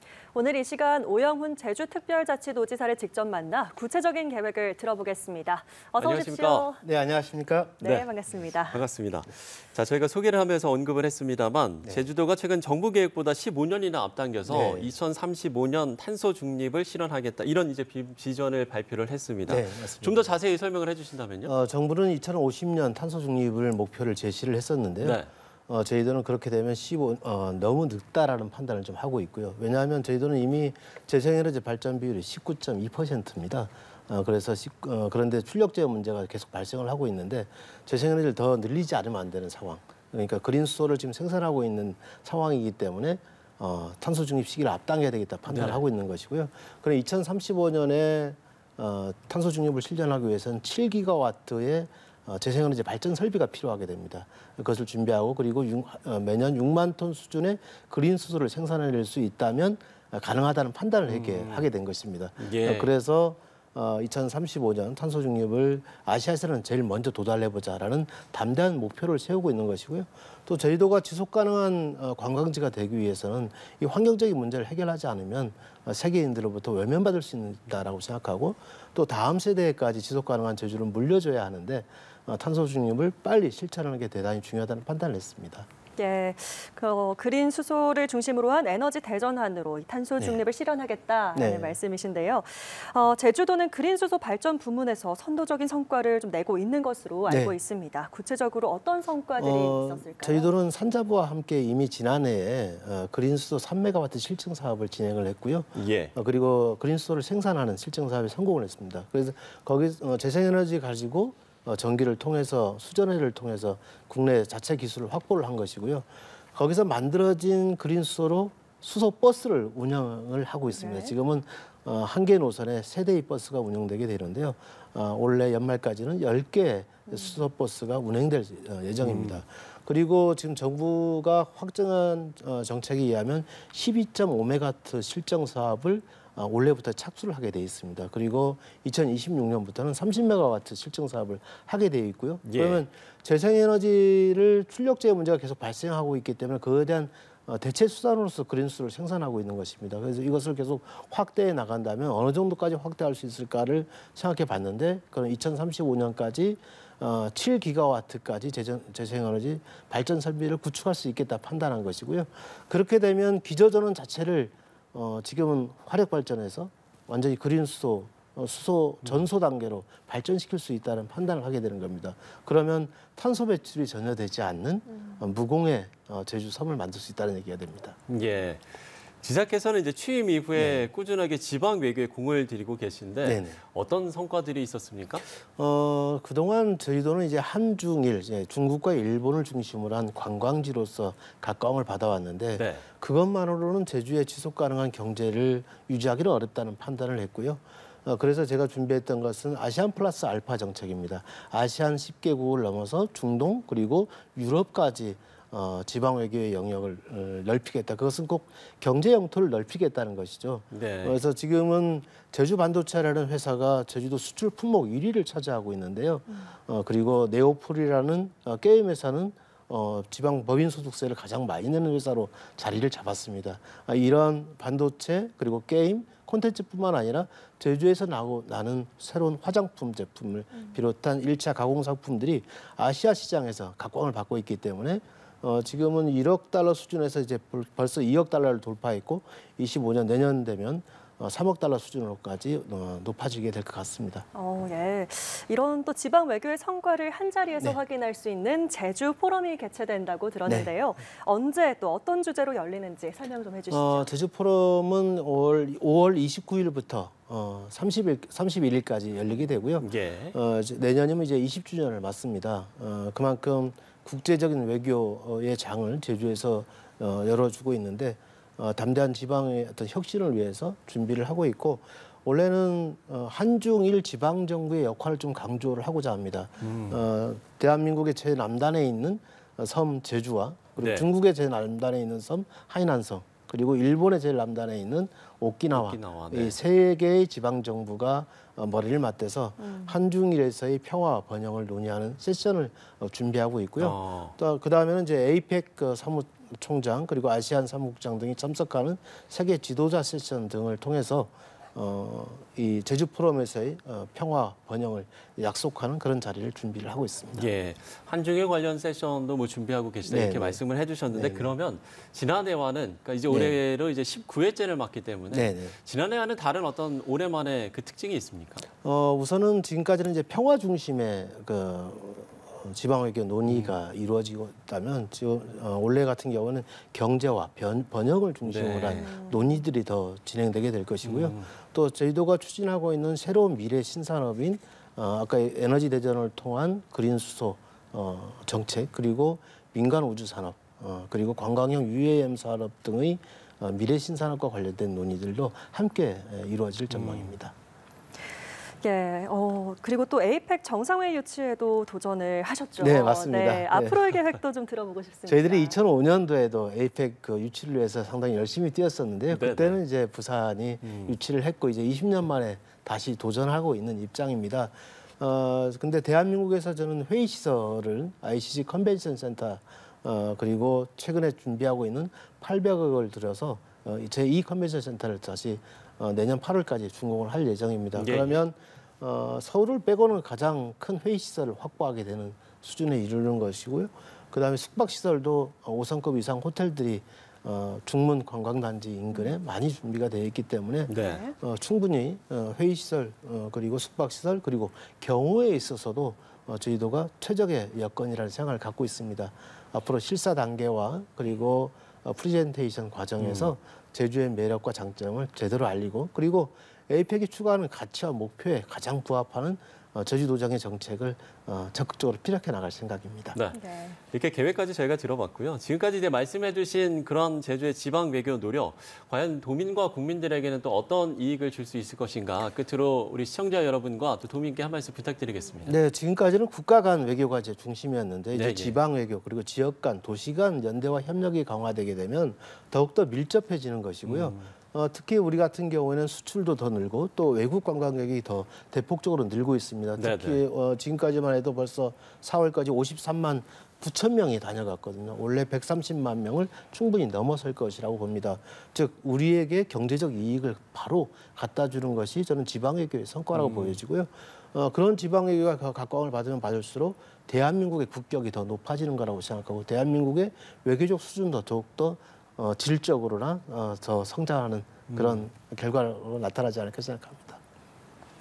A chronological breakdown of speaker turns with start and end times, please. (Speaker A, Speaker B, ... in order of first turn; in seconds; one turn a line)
Speaker A: 0.3-6.8
Speaker B: 6.0-6.7
Speaker C: 6.8-7.9
Speaker A: 7.8-8.8
Speaker B: 7.8-8.1
Speaker B: 8.7-21.5
Speaker C: 14.5-14.9
Speaker C: 19.5-20.3
Speaker C: 21.4-85.7
Speaker B: 25.0-25.3
Speaker B: 45.5-45.8
Speaker B: 61.0-61.7
Speaker B: 62.4-62.9
Speaker A: 86.0-100.5
Speaker C: 91.3-91.8
Speaker C: 97.3-97.5
Speaker C: 99.4-178.0
Speaker B: 105.7-106.1
Speaker A: 120.7-121.1
Speaker A: 127.1-127.4
Speaker B: 129.0-129.4
Speaker B: 142.4-142.8
Speaker B: 178.1-178.6
Speaker B: 179.2-185.2
Speaker C: 180.6-180.8
Speaker C: 183.2-183.6
Speaker C: 185.6-244.2
Speaker B: 192.5-192.8
Speaker B: 210.7-211.2
Speaker A: 244.3-254.1
Speaker C: 250.4-250.7
Speaker C: 253.7-307.5
Speaker B: 259.8-260.4
Speaker B: 276.6-277.0
Speaker B: 280.8-281.1
Speaker B: 285.7-286.6
Speaker A: 289.6-289.9
Speaker B: 293.8-294.4
Speaker B: 307.4-318.6
Speaker C: 310.1-311.5
Speaker C: 313.3-313.6
Speaker C: 315.3-315.7
Speaker C: 318.8-347.5
Speaker B: 323.5-323.7
Speaker B: 328.4-329.1
Speaker A: 328.9-329.6
Speaker B: 331.0-331.5
Speaker B: 346.9-347.3
Speaker A: 348.8-355.7
Speaker C: 352.8-354.1
Speaker C: 355.3-413.4
Speaker B: 359.3-359.8
Speaker B: 360.8-361.1
Speaker B: 378.0-378.4
Speaker B: 390.9-391.2
Speaker A: 391.0-391.3
Speaker B: 403.2-403.5
Speaker B: 413.3-425.8
Speaker A: 413.5-414.0
Speaker C: 425.6-467.4
Speaker B: 428.3-428.8
Speaker B: 434.0-434.5
Speaker B: 440.0-440.4
Speaker B: 453.3-453.8
Speaker B: 464.9-465.3